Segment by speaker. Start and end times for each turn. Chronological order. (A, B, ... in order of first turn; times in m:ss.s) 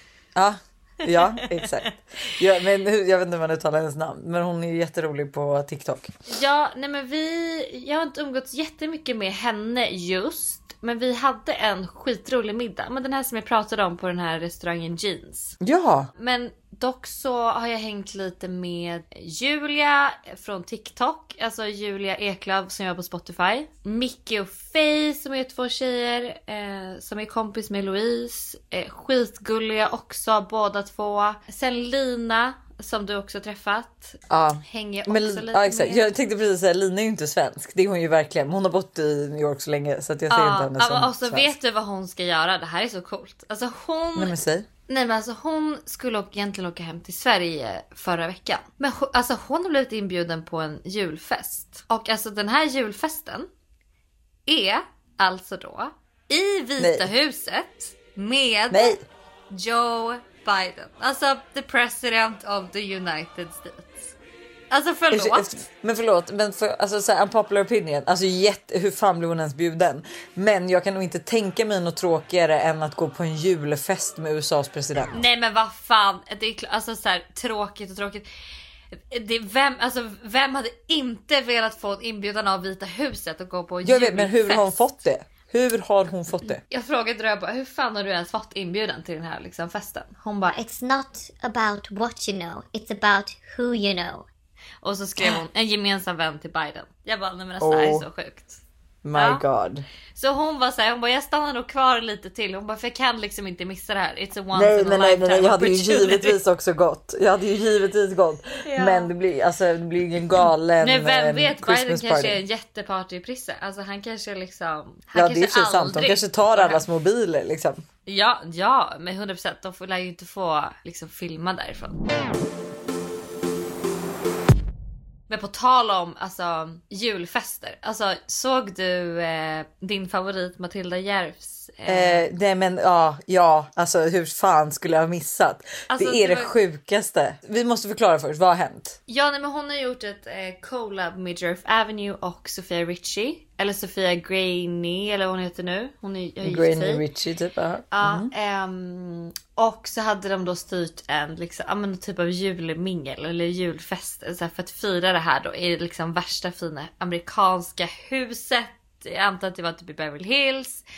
0:00.4-0:06.1 A
0:01.0-0:01.9 B
0:06.3-0:15.6 B
0:15.6-0:16.1 A
0:16.2-0:36.1 B
0:34.3-0:41.5 A
0:40.3-0:44.4 B
0:44.2-0:44.7 A
0:44.9-0:53.5 B
0:54.5-0:59.0 B
0:56.8-0:57.1 A
0:58.7-0:59.0 A
0:59.5-1:04.1 B
1:04.7-1:05.6 B
1:05.1-1:15.3 A
1:15.1-1:18.2 B
1:18.9-1:24.8 B
1:23.8-1:26.6 A
1:26.5-1:30.6 B
1:30.5-1:34.2 C
1:34.8-1:38.6 B
1:37.6-1:38.1 A
1:39.0-1:39.9 A
1:39.2-1:39.4 B
1:40.2-1:46.4 B
1:44.5-1:52.4 A
1:48.6-1:49.1 B
1:50.8-1:56.8 B
1:55.1-1:57.8 A
1:58.1-2:02.0 B
2:05.3-2:12.3 B
2:11.9-2:19.0 A
2:15.9-2:16.5 B
2:19.1-2:27.0 B
2:26.4-2:28.3 A
2:27.9-2:40.8 B